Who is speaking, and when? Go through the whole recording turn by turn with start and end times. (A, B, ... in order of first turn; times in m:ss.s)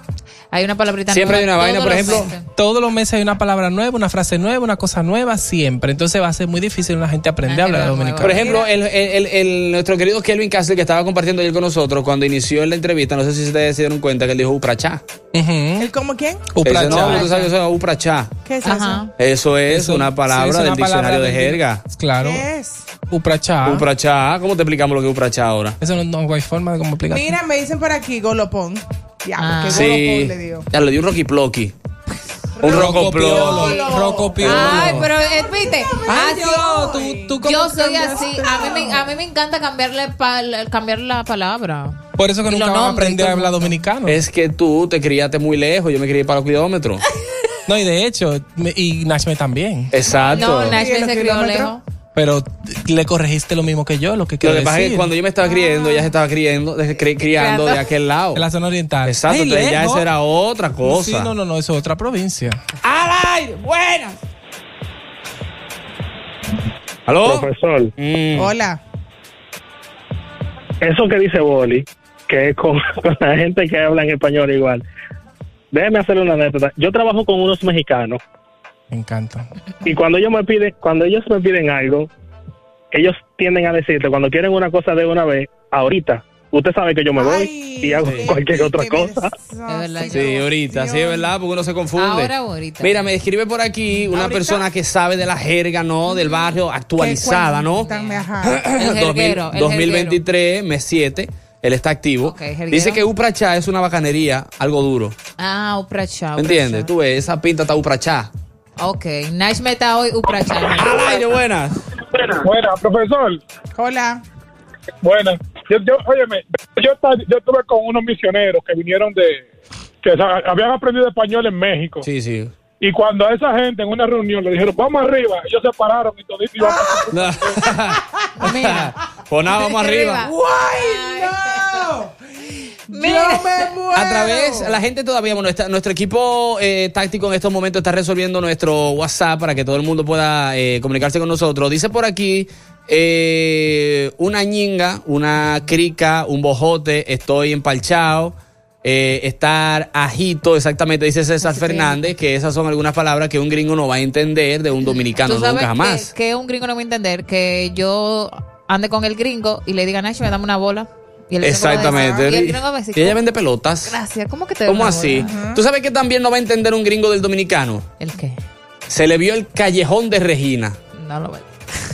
0:00.5-0:02.4 A
0:01.1-0:02.3 B
0:02.5-0:08.5 C
0:07.4-0:08.5 A
0:08.2-0:15.0 B
0:08.4-0:08.7 D
0:15.3-0:15.9 C
0:15.8-0:16.5 D
0:16.5-0:17.3 C
0:16.6-0:18.3 B
0:16.9-0:17.5 A
0:18.4-0:19.1 D
0:18.6-0:19.1 A
0:19.2-0:21.8 B
0:19.7-0:22.4 C
0:22.2-0:22.8 D
0:23.1-0:23.8 C
0:23.6-0:25.8 B
0:25.8-0:27.4 C
0:27.1-0:30.6 D
0:29.4-0:29.9 A
0:29.7-0:31.7 B
0:32.6-0:39.0 D
0:32.6-0:33.7 B
0:32.6-0:35.1 C
0:33.5-0:36.7 A
0:34.4-0:34.8 B
0:36.1-0:38.2 C
0:37.4-0:43.8 A
0:42.2-0:44.2 C
0:44.0-0:47.0 B
0:47.7-0:49.9 C
0:49.9-0:50.8 B
0:50.3-0:51.8 D
0:50.3-0:51.8 A
0:52.1-0:55.1 C
0:54.4-0:58.4 B
0:55.4-0:56.1 A
0:57.2-0:57.8 A
0:58.3-1:00.1 C
0:59.0-1:01.3 B
1:00.8-1:02.6 C
1:02.8-1:04.2 B
1:07.1-1:08.5 B
1:07.2-1:07.9 E
1:08.4-1:08.8 D
1:10.8-1:14.8 E
1:15.7-1:18.2 E
1:18.9-1:19.5 C
1:19.8-1:22.1 E
1:22.9-1:29.3 E
1:27.2-1:31.3 D
1:28.0-1:28.3 B
1:29.6-1:30.5 A
1:30.1-1:37.9 B
1:32.0-1:33.0 A
1:34.1-1:34.6 D
1:37.0-1:38.6 D
1:37.8-1:40.2 A
1:38.4-1:45.1 B
1:42.2-1:43.0 A
1:45.4-1:46.9 A
1:46.4-1:48.3 B
1:48.8-1:51.3 A
1:50.6-1:51.8 B
1:52.4-1:53.4 F
1:53.7-1:54.2 D
1:55.0-1:59.4 F
2:00.0-2:02.0 F
2:02.0-2:02.5 B
2:02.8-2:06.6 F
2:06.6-2:07.1 D
2:07.1-2:10.3 B
2:08.4-2:08.9 A
2:09.5-2:11.8 A
2:10.2-2:12.1 D
2:12.9-2:14.8 D
2:12.9-2:13.7 A
2:13.9-2:36.1 B
2:31.4-2:32.1 A
2:34.8-2:43.2 A
2:41.4-2:44.0 B
2:43.8-2:45.3 A
2:44.6-2:47.8 B
2:45.2-2:45.6 D
2:48.0-2:48.4 A
2:48.9-2:50.8 B
2:50.9-2:51.5 A